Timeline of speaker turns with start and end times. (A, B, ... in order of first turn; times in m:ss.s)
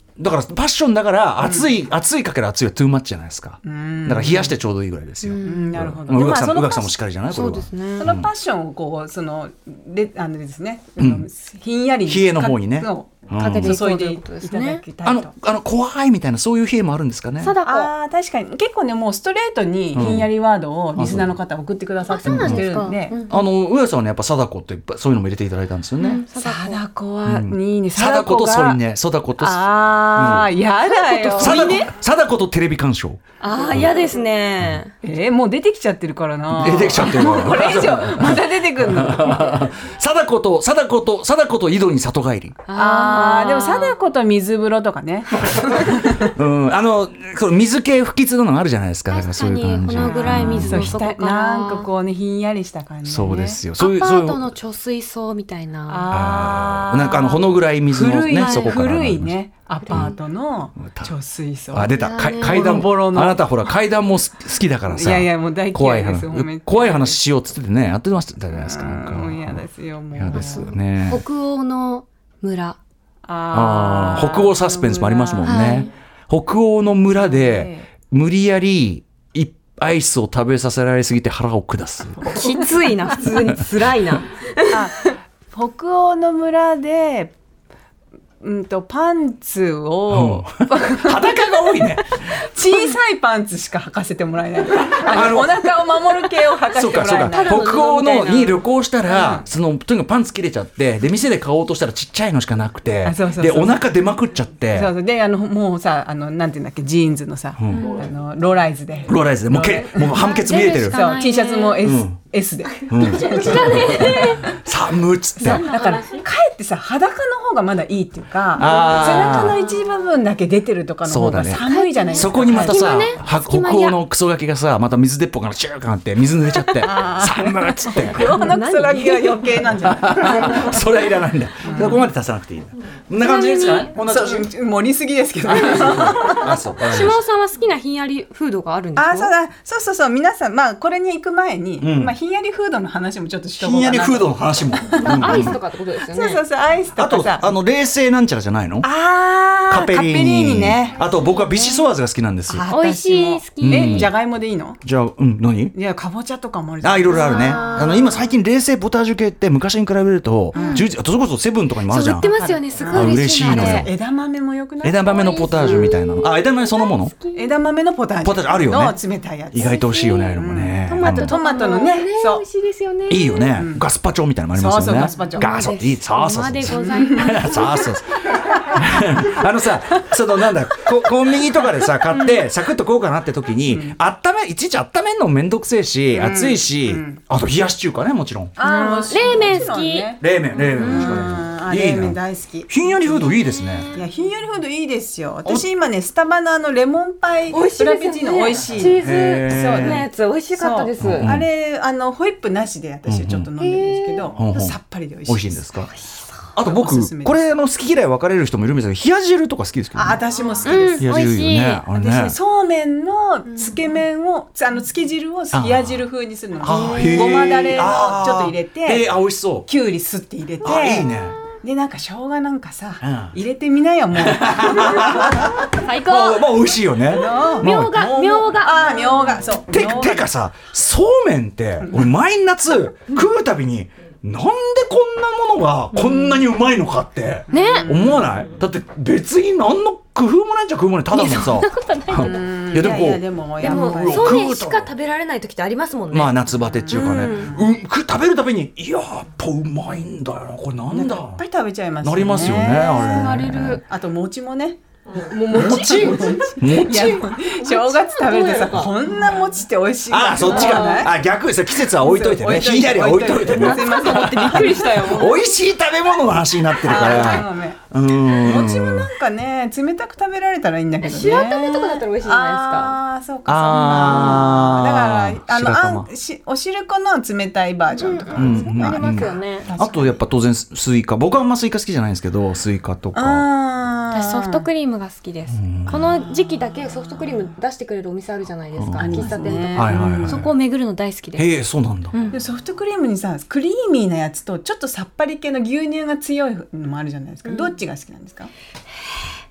0:00.2-0:08.3 A
0:01.4-0:01.7 B
0:03.6-0:04.6 B
0:05.2-0:08.2 C
0:05.4-0:06.9 B
0:08.0-0:15.3 B
0:11.0-0:11.2 A
0:12.1-0:13.8 A
0:13.3-0:14.8 C
0:15.0-0:17.6 A
0:17.4-0:17.9 C
0:17.6-0:23.2 B
0:19.9-0:20.3 A
0:20.9-0:21.3 A
0:22.1-0:23.4 C
0:22.2-0:22.7 A
0:23.3-0:26.2 A
0:26.0-0:26.8 C
0:26.3-0:28.8 B
0:27.2-0:30.5 A
0:29.4-0:31.9 B
0:30.9-0:31.8 C
0:31.4-0:33.2 A
0:33.4-0:34.9 C
0:35.0-0:39.6 B
0:36.5-0:42.6 A
0:42.7-0:43.9 C
0:42.8-0:46.4 B
0:45.3-0:45.9 C
0:46.2-0:51.0 A
0:49.1-0:51.9 C
0:49.9-0:53.6 B
0:53.1-0:54.5 A
0:53.8-0:56.1 C
0:55.9-1:03.4 B
0:56.1-0:59.4 A
0:58.2-0:58.9 C
0:59.8-1:00.2 C
1:00.8-1:01.1 A
1:01.7-1:09.6 A
1:01.9-1:02.9 C
1:04.9-1:07.2 B
1:08.5-1:10.8 B
1:10.1-1:11.2 A
1:10.3-1:12.8 C
1:13.2-1:15.8 B
1:13.5-1:22.2 A
1:15.4-1:15.9 C
1:17.2-1:17.9 B
1:22.2-1:22.8 B
1:22.3-1:24.8 C
1:24.7-1:27.3 B
1:28.4-1:31.8 B
1:30.1-1:32.1 A
1:32.4-1:37.7 B
1:35.1-1:35.8 A
1:36.7-1:44.9 A
1:37.2-1:38.6 C
1:39.1-1:39.4 B
1:43.0-1:43.8 B
1:44.7-1:54.5 B
1:47.6-1:47.9 A
1:49.1-1:51.0 A
1:50.0-1:51.9 C
1:51.8-1:52.2 A
1:52.9-1:55.6 A
1:52.9-1:54.4 C
1:55.4-1:56.2 C
1:55.4-2:02.8 B
1:58.6-1:59.6 A
1:58.6-1:59.8 C
2:01.1-2:08.3 A
2:01.6-2:04.0 C
2:06.8-2:10.8 B
2:08.2-2:09.8 C
2:09.8-2:14.5 A
2:11.6-2:12.0 B
2:13.2-2:13.9 C
2:14.0-2:16.5 B
2:15.5-2:17.2 A
2:16.8-2:19.3 C
2:19.0-2:25.5 B
2:21.8-2:22.1 A
2:23.6-2:25.6 A
2:25.0-2:26.4 C
2:26.1-2:27.5 B
2:27.0-2:28.9 A
2:28.8-2:31.8 B
2:29.7-2:32.6 A
2:32.5-2:34.8 B
2:32.7-2:34.1 C
2:33.6-2:34.1 A
2:34.8-2:35.8 A
2:35.8-2:37.9 B
2:36.8-2:42.3 A
2:37.1-2:38.2 C
2:40.5-2:40.8 B
2:40.5-2:40.9 C
2:41.9-2:43.9 C
2:42.2-2:45.9 B
2:42.9-2:43.9 A
2:44.8-2:47.1 A
2:45.1-2:47.4 C
2:47.3-2:52.4 B
2:48.2-2:49.0 A
2:49.5-2:51.3 A
2:49.6-2:53.5 C
2:53.1-3:08.6 A
2:53.6-2:53.8 B
2:54.5-2:55.6 B
2:55.3-2:57.9 C
2:56.7-2:57.6 B
3:03.7-3:04.0 B
3:06.1-3:07.2 B
3:08.6-3:13.4 B
3:08.6-3:10.1 C
3:10.2-3:12.2 A
3:10.6-3:11.4 C
3:12.7-3:13.9 A
3:13.6-3:14.0 C
3:13.9-3:19.1 B
3:17.5-3:21.3 C
3:19.0-3:20.1 A
3:20.6-3:25.6 B
3:21.0-3:21.4 A
3:23.1-3:23.5 A
3:23.6-3:24.3 C
3:24.4-3:25.9 A
3:25.9-3:26.3 C
3:26.6-3:30.2 A
3:26.6-3:27.4 B
3:29.9-3:31.1 B
3:30.6-3:31.8 C
3:31.0-3:32.4 A
3:31.9-3:39.1 B
3:35.5-3:36.0 A
3:36.6-3:39.7 A
3:36.7-3:37.4 C
3:39.7-3:45.8 B
3:40.6-3:41.4 A
3:43.0-3:43.3 A
3:44.2-3:48.5 A
3:45.7-3:46.7 C
3:47.1-3:50.3 B
3:47.5-3:49.4 C
3:49.7-4:04.9 A
3:55.9-3:56.4 C
3:57.5-3:58.3 B
3:57.5-3:57.9 C
4:01.1-4:02.8 C
4:02.2-4:04.4 B
4:03.6-4:06.3 C
4:06.1-4:11.4 A
4:06.9-4:07.6 B
4:06.9-4:07.6 C
4:10.9-4:21.2 B
4:12.0-4:13.8 A
4:12.7-4:13.8 C
4:15.2-4:18.9 C
4:15.5-4:17.3 A
4:20.1-4:29.1 A
4:20.4-4:21.1 C
4:22.0-4:25.0 B
4:23.4-4:25.4 C
4:26.8-4:27.8 B
4:26.9-4:27.4 C
4:28.3-4:40.2 B
4:31.0-4:33.0 C
4:33.5-4:36.1 A
4:33.7-4:34.5 C
4:38.0-4:39.7 C
4:38.4-4:43.4 A
4:43.2-4:44.6 B
4:44.1-4:51.5 C
4:45.5-4:46.0 A
4:48.8-4:50.5 A
4:49.0-4:50.4 B
4:51.4-4:52.2 A
4:52.1-4:52.4 C
4:52.3-4:58.5 B
4:57.4-4:57.7 C
4:59.1-4:59.3 C